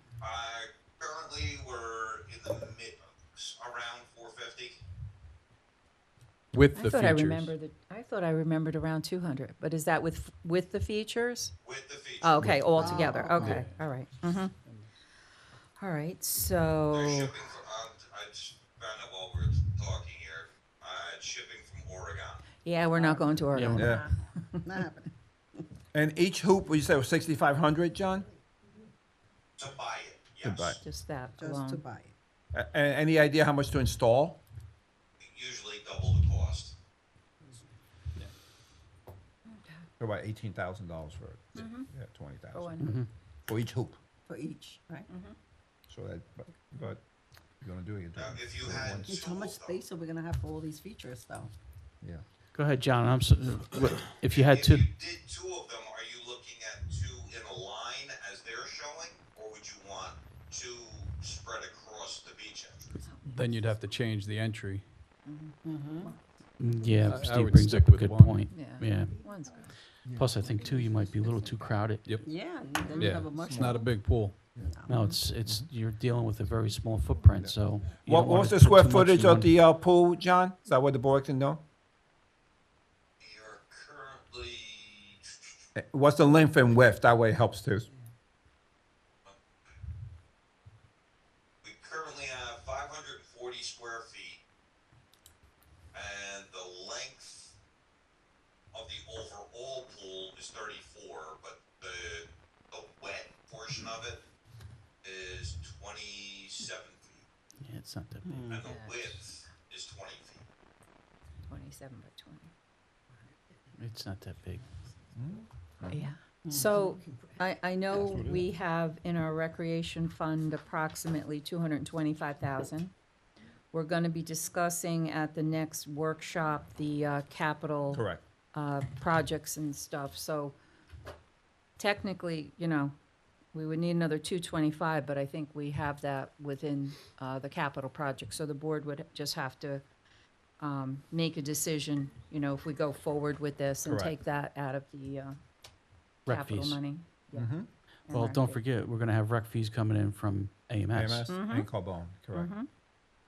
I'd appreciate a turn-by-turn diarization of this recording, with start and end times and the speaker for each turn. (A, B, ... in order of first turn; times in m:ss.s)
0:00.2-0:04.8 A
0:06.5-0:07.5 B
0:06.8-0:11.5 C
0:11.6-0:12.6 A
0:12.2-0:14.6 C
0:12.4-0:14.0 B
0:12.8-0:13.5 D
0:14.6-0:14.9 B
0:15.8-0:17.4 C
0:16.9-0:22.4 A
0:22.6-0:24.6 C
0:22.9-0:25.1 D
0:23.5-0:23.9 E
0:23.8-0:24.0 F
0:25.9-0:28.3 F
0:29.6-0:30.8 A
0:30.4-0:30.8 F
0:30.8-0:31.8 C
0:31.4-0:32.1 D
0:32.5-0:34.4 F
0:35.2-0:36.8 A
0:39.5-0:39.9 C
0:40.0-0:42.7 F
0:41.6-0:41.9 C
0:42.5-0:43.0 C
0:42.8-0:43.1 E
0:43.5-0:44.0 F
0:44.2-0:45.1 D
0:45.1-0:45.4 C
0:45.9-0:47.0 F
0:47.6-0:49.1 F
0:48.2-0:49.8 A
0:49.1-0:51.5 D
0:52.5-0:54.8 E
0:54.2-1:03.0 A
1:03.0-1:03.6 C
1:03.3-1:04.9 B
1:05.2-1:05.6 C
1:05.6-1:06.1 D
1:06.6-1:09.2 E
1:06.9-1:08.5 B
1:08.5-1:09.7 C
1:10.0-1:12.1 E
1:12.0-1:12.3 B
1:12.2-1:14.0 D
1:12.9-1:14.6 B
1:14.6-1:15.0 D
1:14.9-1:19.5 E
1:17.4-1:21.6 F
1:23.2-1:25.3 A
1:25.8-1:27.9 F
1:31.6-1:34.4 A
1:35.9-1:37.5 A
1:38.7-1:44.2 A
1:45.0-1:47.2 A
1:47.6-1:48.5 E
1:48.2-1:48.6 D
1:48.5-1:50.4 A
1:48.6-1:49.2 C
1:51.5-1:52.5 C
1:53.8-1:54.6 E
1:55.2-1:56.0 F
1:55.9-2:02.9 C
1:56.4-1:57.4 D
2:03.7-2:10.6 C
2:07.9-2:08.2 F
2:11.8-2:13.0 C
2:13.5-2:19.8 C
2:20.6-2:25.4 C
2:23.8-2:24.2 F
2:26.2-2:28.6 C
2:26.2-2:26.8 E
2:27.3-2:27.7 F
2:28.1-2:31.3 E
2:30.9-2:32.5 F
2:31.3-2:32.7 C